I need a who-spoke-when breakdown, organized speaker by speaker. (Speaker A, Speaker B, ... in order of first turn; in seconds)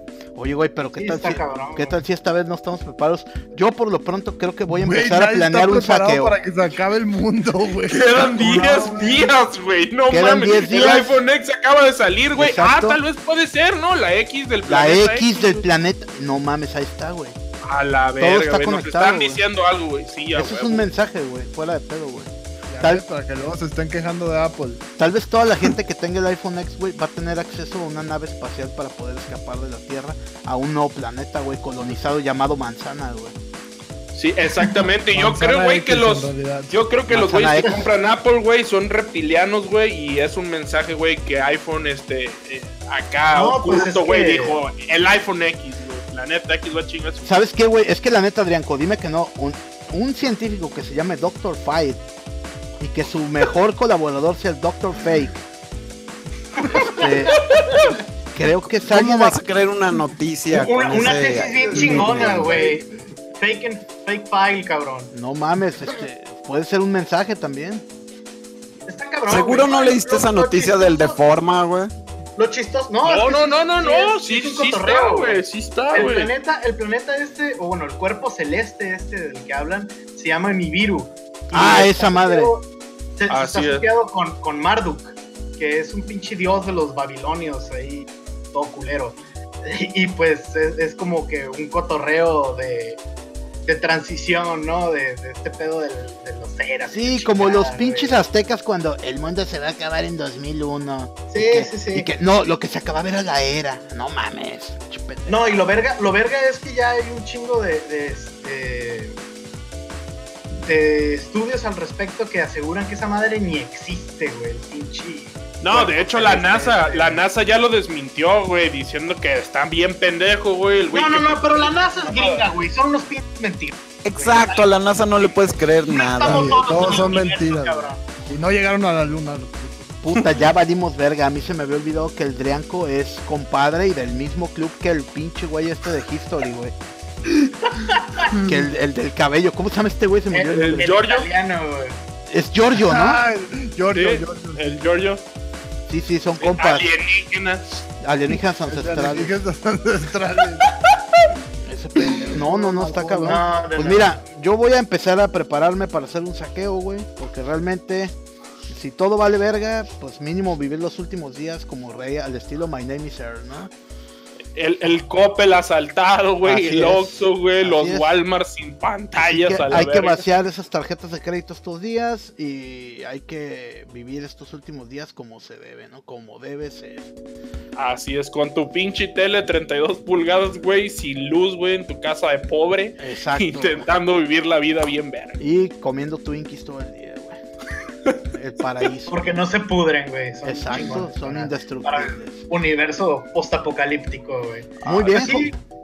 Speaker A: 0.3-6.3, 10.1-11.1, 12.4-13.0, 14.6-17.4, 18.2-19.4, 20.3-23.0, 25.0-33.3, 37.1-37.9, 47.2-52.0, 52.8-55.4, 56.7-57.5, 58.3-59.4, 65.1-67.8, 81.5-82.5, 96.9-105.6, 130.0-136.8, 138.4-140.9, 142.3-143.2, 145.9-146.8, 148.0-149.4, 151.6-158.1, 158.7-163.7, 166.4-168.1, 169.2-177.1, 183.0-183.9, 185.4-187.4, 188.3-189.4, 190.4-192.4, 194.8-195.5
Speaker B: 1.0-2.0, 43.3-44.6, 56.7-57.9, 60.5-65.1, 68.8-71.2, 72.3-93.0, 93.7-98.2, 101.3-102.1, 105.3-109.2, 110.5-117.2, 120.9-128.0, 137.7-138.3, 140.3-142.0, 153.2-154.2, 189.1-195.6
Speaker C: 4.7-9.3, 22.7-24.8, 35.1-36.7, 61.7-62.8, 126.2-129.9, 142.8-144.8, 148.7-150.7, 152.0-153.4
Speaker D: 7.9-15.6, 17.6-20.9, 34.1-47.4, 73.0-76.3, 83.3-83.8, 115.6-122.5, 140.5-141.3, 143.9-145.2, 146.4-147.7, 164.5-170.2, 177.8-185.4
Speaker E: 58.9-62.6, 69.3-71.9, 124.0-127.0